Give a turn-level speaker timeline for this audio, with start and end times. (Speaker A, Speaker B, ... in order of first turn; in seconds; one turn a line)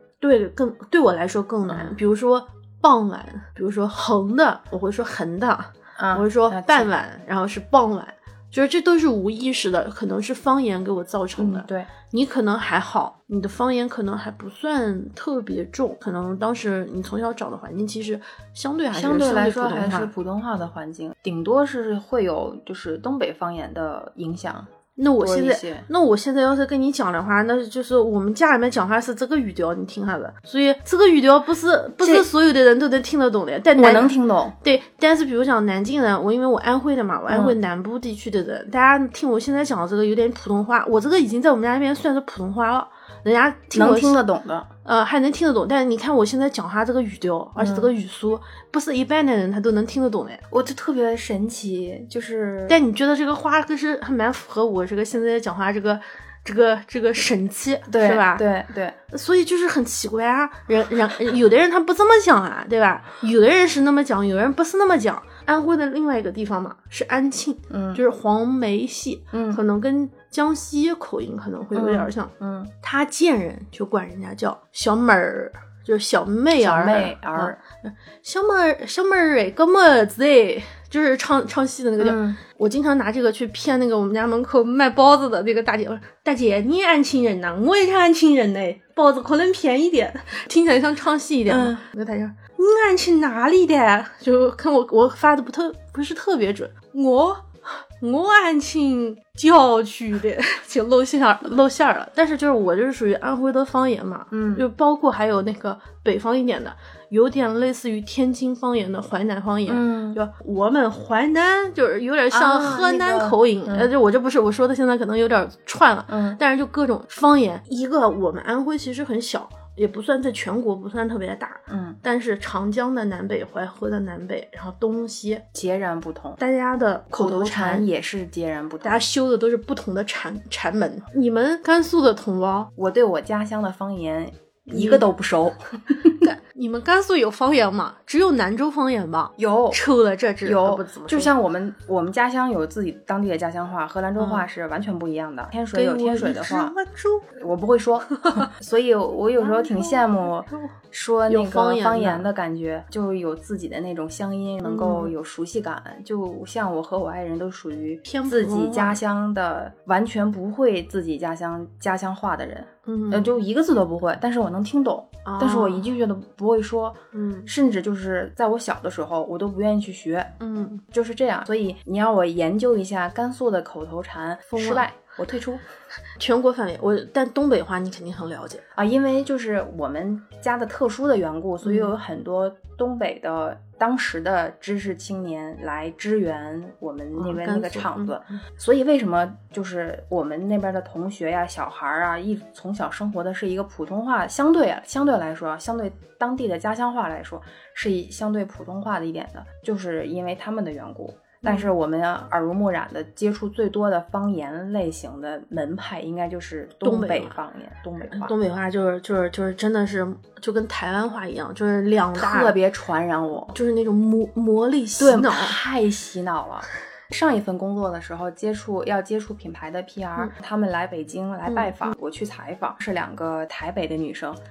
Speaker A: 0.2-20.1
Speaker B: 1.7-2.0
Speaker B: 6.0-6.9
Speaker B: 11.4-11.9
Speaker B: 18.9-25.9
Speaker A: 25.0-44.2
Speaker B: 32.0-32.3
Speaker B: 33.8-34.6
Speaker B: 37.3-37.6
Speaker B: 43.7-44.7
Speaker A: 44.8-50.5
Speaker B: 47.6-47.9
Speaker B: 50.5-52.8
Speaker A: 52.7-58.5
Speaker B: 57.9-59.0
Speaker A: 59.1-125.5
Speaker B: 67.7-68.0
Speaker B: 69.3-69.6
Speaker B: 71.8-72.7
Speaker B: 76.6-77.6
Speaker B: 82.0-82.4
Speaker B: 91.5-91.8
Speaker B: 104.3-104.7
Speaker B: 109.7-110.2
Speaker B: 112.3-113.9
Speaker B: 116.1-116.4
Speaker B: 121.7-122.0
Speaker B: 125.5-126.4
Speaker A: 126.4-127.9
Speaker B: 127.1-129.0
Speaker A: 128.8-132.7
Speaker B: 132.8-136.2
Speaker A: 134.7-135.1
Speaker A: 136.2-141.3
Speaker B: 139.4-139.8
Speaker B: 140.4-146.8
Speaker A: 144.2-144.5
Speaker A: 145.7-147.3
Speaker B: 147.3-170.3
Speaker A: 148.1-148.5
Speaker A: 149.4-150.8
Speaker A: 151.3-152.3
Speaker A: 154.6-155.1
Speaker A: 158.1-159.0
Speaker A: 162.9-163.4
Speaker A: 165.2-165.9
Speaker A: 167.1-167.5
Speaker A: 170.4-170.8
Speaker B: 170.9-175.6
Speaker A: 174.5-174.9
Speaker A: 176.2-178.6
Speaker B: 178.8-208.3
Speaker A: 181.6-181.9
Speaker A: 187.2-188.4
Speaker A: 201.4-201.7
Speaker A: 206.8-207.4
Speaker A: 208.1-212.6
Speaker B: 212.2-213.6
Speaker A: 213.5-215.6
Speaker B: 215.0-224.4
Speaker A: 221.5-221.9